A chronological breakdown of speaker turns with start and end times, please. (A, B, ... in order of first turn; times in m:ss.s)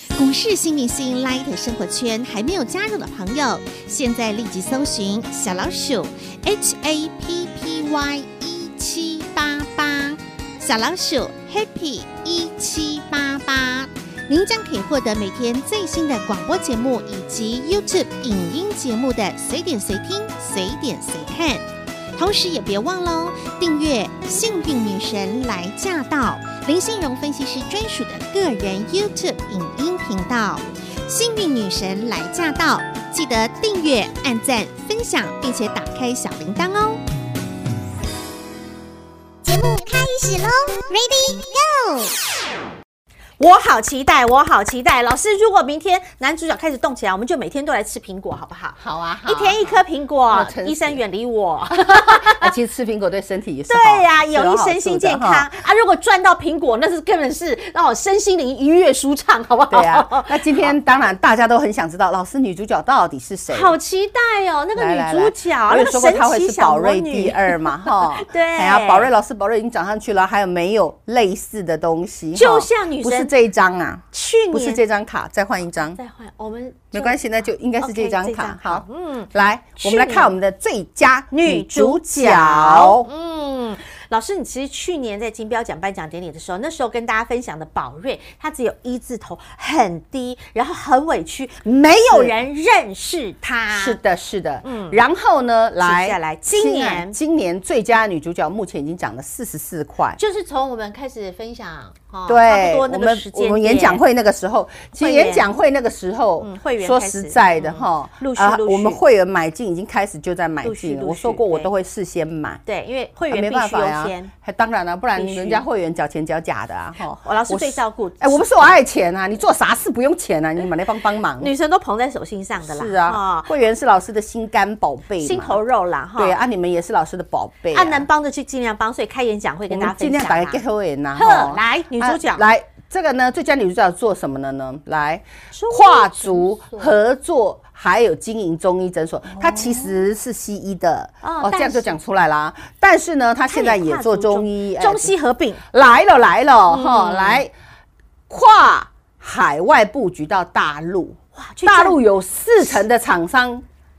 0:00.2-0:37.0 A
0:39.4-0:42.1 A
0:43.4-0:52.5 B
0:48.8-0:49.8 C
0:50.3-0:51.0 C
0:51.9-0:55.5 C
0:53.7-1:00.7 B
0:59.7-1:03.8 C
1:03.5-1:09.1 B
1:04.8-1:16.0 C
1:12.3-1:13.3 B
1:14.1-1:14.8 B
1:15.8-1:20.3 B
1:16.9-1:23.1 C
1:21.3-1:34.0 B
1:32.1-1:32.4 C
1:33.7-1:40.2 C
1:34.6-1:35.0 B
1:35.8-1:37.2 B
1:40.2-1:44.0 B
1:42.3-1:52.6 C
1:45.0-1:45.5 B
1:46.4-1:49.0 B
1:50.6-1:51.7 B
1:52.7-1:54.3 B
1:53.3-2:01.5 C
1:55.2-1:55.6 B
1:57.2-1:58.8 B
2:01.4-2:03.5 B
2:02.6-2:05.6 C
2:05.2-2:06.4 B
2:06.2-2:08.1 C
2:07.7-2:10.6 B
2:09.7-2:25.1 C
2:11.1-2:12.4 B
2:15.5-2:16.9 B
2:19.3-2:19.9 B
2:21.2-2:22.0 B
2:23.5-2:25.6 B
2:25.7-2:27.5 C
2:26.7-2:27.4 B
2:28.3-2:33.6 C
2:31.4-2:32.0 B